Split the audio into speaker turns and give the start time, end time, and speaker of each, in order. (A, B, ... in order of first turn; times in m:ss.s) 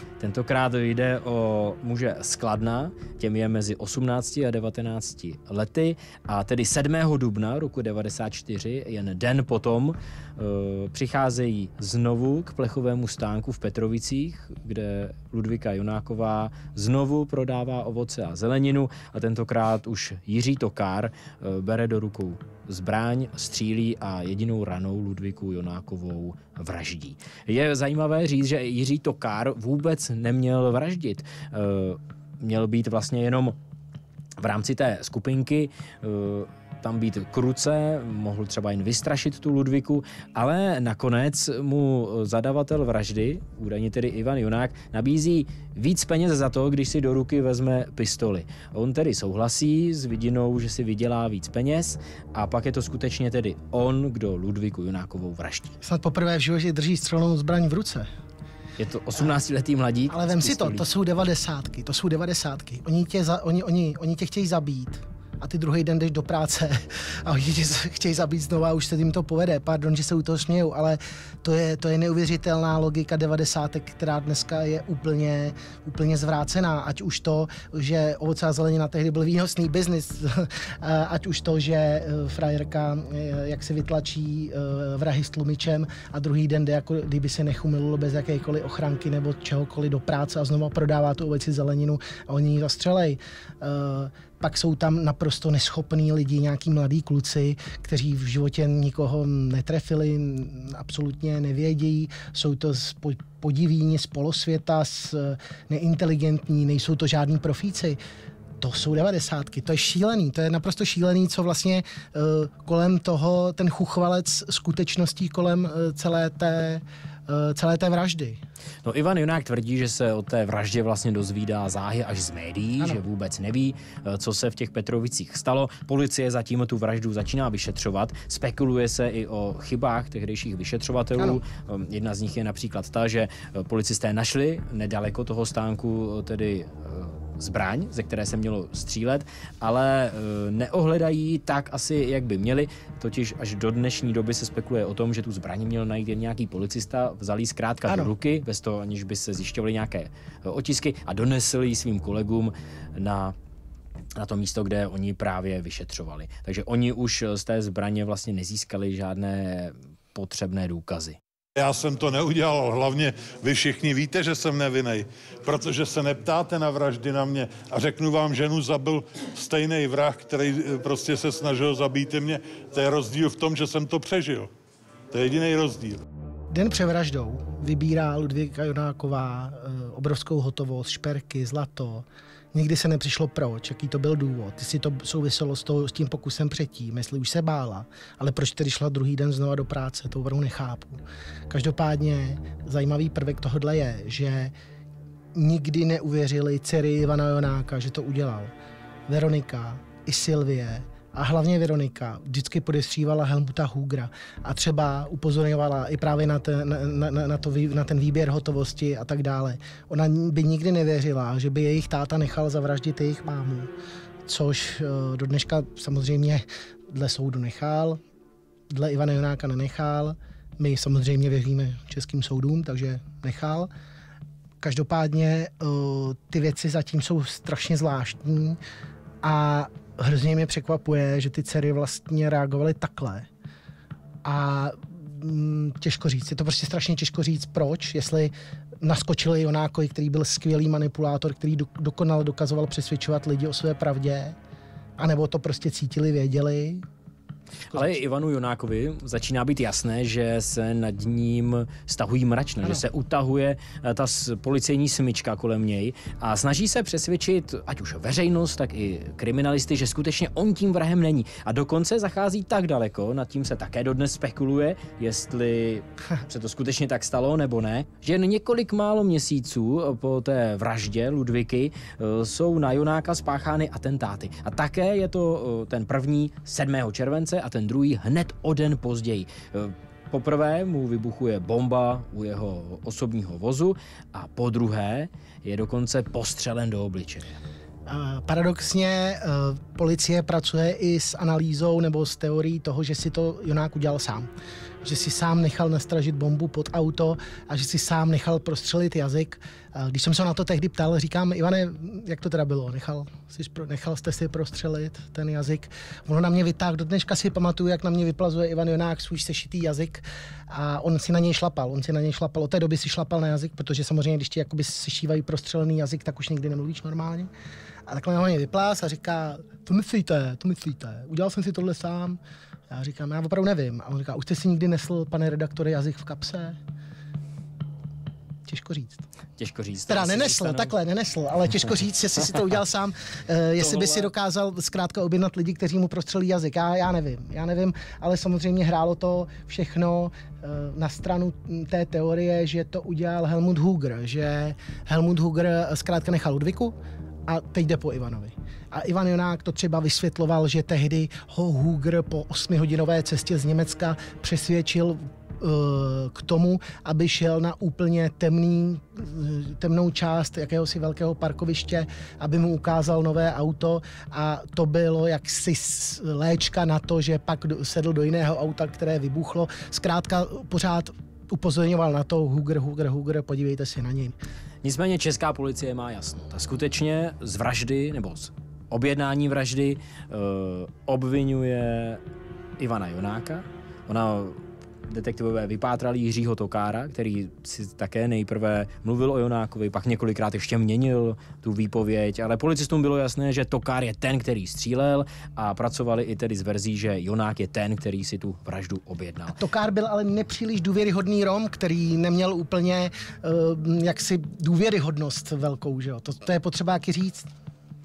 0:00.2-0:33.6 A
0:34.4-0:55.8 A
0:55.8-0:58.1 B
0:58.8-1:00.9 A
1:00.1-1:48.0 B
1:48.6-1:58.4 B
1:58.8-2:33.3 A
2:11.2-2:11.4 B
2:34.2-2:41.2 A
2:41.6-2:54.5 C
2:55.1-2:56.0 C
2:56.5-3:14.5 B
3:15.3-3:18.5 B
3:19.1-3:33.7 B
3:34.2-3:38.0 B
3:38.7-3:43.7 B
3:44.6-3:48.6 B
3:49.2-3:53.3 B
3:54.2-4:04.4 B
4:05.0-4:06.8 B
4:07.7-4:47.3 A
4:47.8-4:54.3 B
4:54.8-5:17.3 B
5:17.9-5:26.6 B
5:28.5-5:29.0 B
5:29.4-5:30.7 A
5:29.9-5:46.7 B
5:33.6-5:34.1 A
5:47.3-6:14.2 B
6:14.6-6:22.0 A
6:22.6-6:39.4 A
6:39.4-6:47.3 B